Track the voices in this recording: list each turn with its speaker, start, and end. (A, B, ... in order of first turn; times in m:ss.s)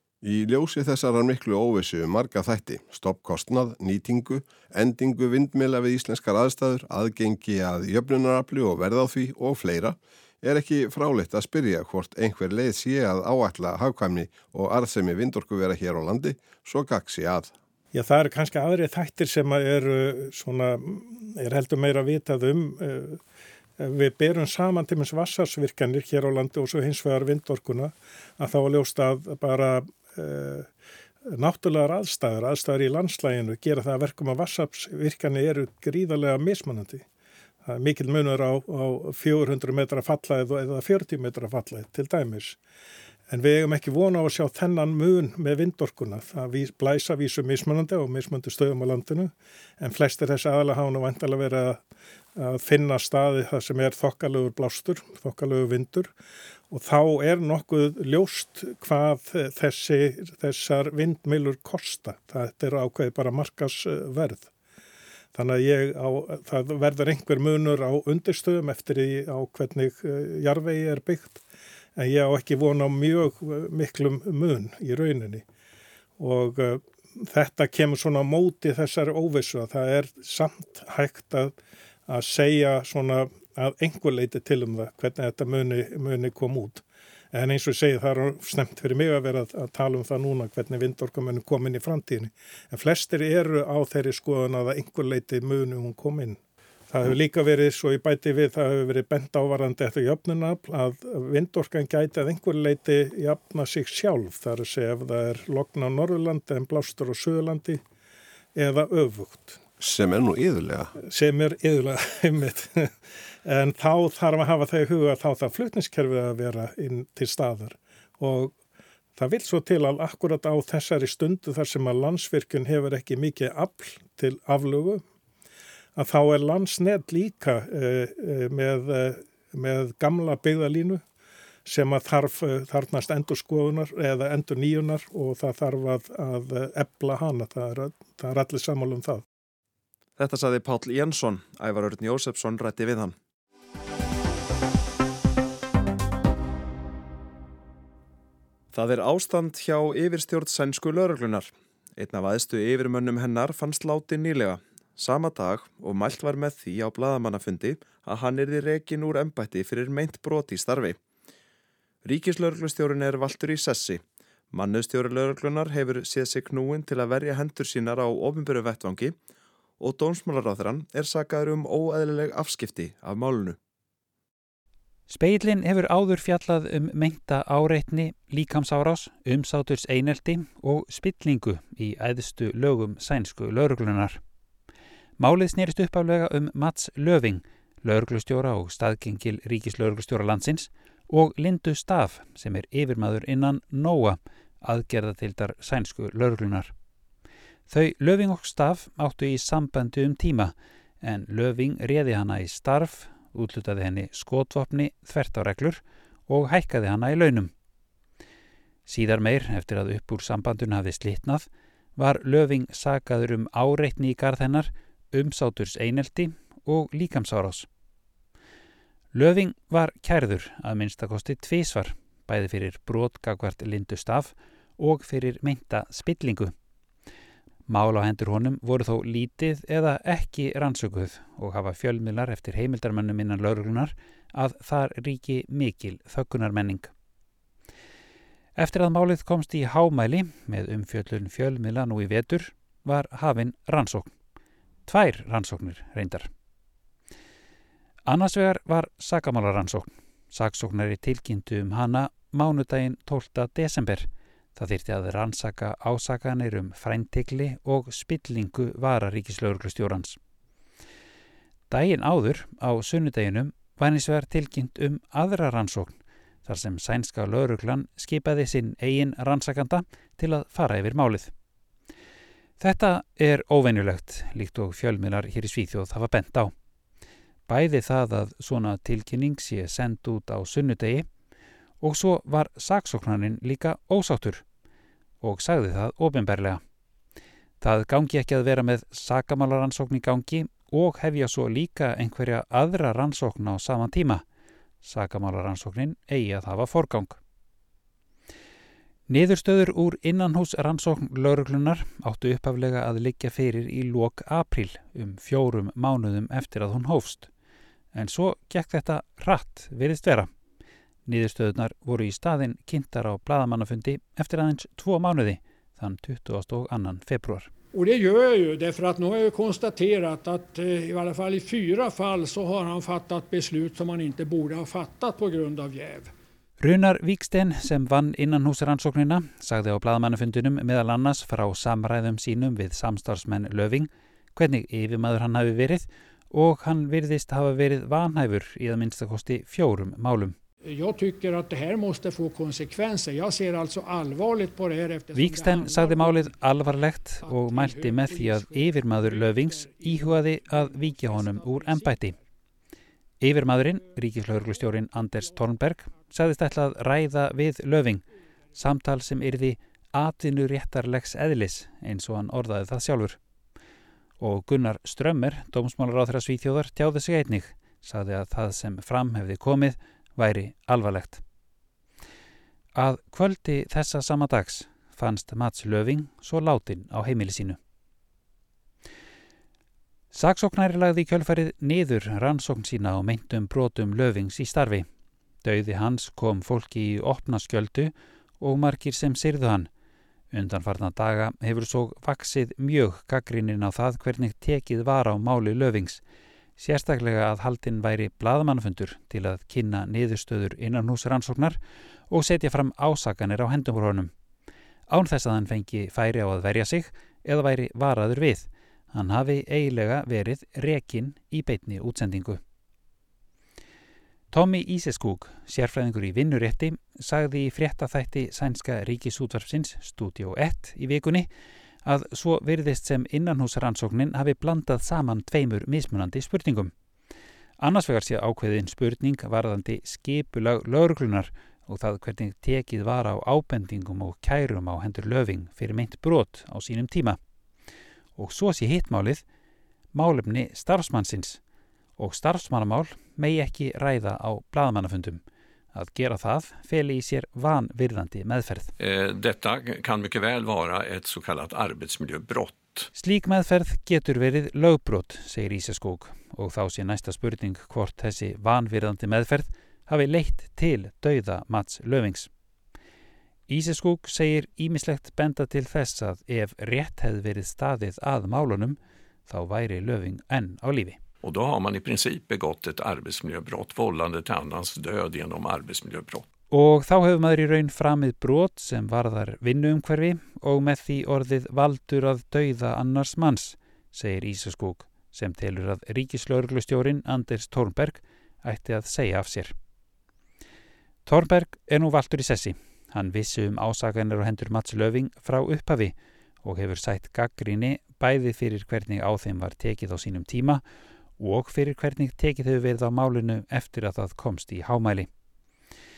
0:00.2-0:17.5 A
0:17.9-0:23.2 B
0:23.8-0:30.7 B
0:31.3-0:37.0 B
0:37.6-0:42.6 B
0:43.3-0:51.8 B
0:52.4-0:56.1 B
0:56.7-1:04.5 B
1:05.3-1:11.4 B
1:12.0-1:15.4 B
1:16.2-1:21.6 B
1:22.1-1:47.8 B
1:48.5-1:49.6 B
1:49.8-1:50.9 A
1:51.0-1:52.9 B
1:53.4-1:58.5 B
1:59.1-2:05.0 B
2:06.0-2:11.0 B
2:11.6-2:19.2 B
2:20.2-2:23.1 C
2:28.7-2:41.0 C
2:42.0-2:49.1 C
2:49.8-2:53.6 C
2:55.1-3:04.2 D
3:05.2-3:16.7 D
3:17.7-3:27.5 D
3:28.9-3:37.7 D
3:39.1-3:46.5 D
3:47.7-3:56.9 D
3:58.6-4:04.1 D
4:04.8-4:06.3 D
4:08.1-4:20.2 D
4:21.7-4:25.9 D
4:26.4-4:31.3 D
4:32.6-4:36.5 D
4:37.5-4:41.1 D
4:41.8-4:44.4 D
4:45.2-4:46.6 D
4:47.6-4:54.2 D
4:54.8-4:57.2 D
4:59.1-5:07.3 D
5:07.9-5:10.3 D
5:11.0-5:17.5 D
5:17.7-5:26.1 E
5:26.6-5:40.4 D
5:40.6-5:46.4 E
5:45.1-5:52.2 D
5:47.2-5:52.2 E
5:53.2-5:58.0 D
5:53.8-5:55.6 E
5:58.6-6:03.2 D
6:04.2-6:11.2 D
6:12.8-6:17.6 D
6:20.1-6:24.9 D
6:25.4-6:29.7 D
6:30.3-6:36.0 D
6:36.6-6:41.6 D
6:42.1-6:44.1 D
6:44.9-6:52.4 D
6:54.3-7:01.3 D
7:01.8-7:06.7 D
7:07.6-7:17.2 D
7:18.2-7:19.2 D
7:19.9-7:21.4 D
7:22.0-7:25.2 D
7:25.7-7:28.7 D
7:28.8-7:32.9 F
7:32.9-7:42.3 D
7:43.5-7:51.0 D
7:51.2-7:56.2 F
7:56.5-8:09.5 D
8:11.0-8:20.6 D
8:21.2-8:25.1 D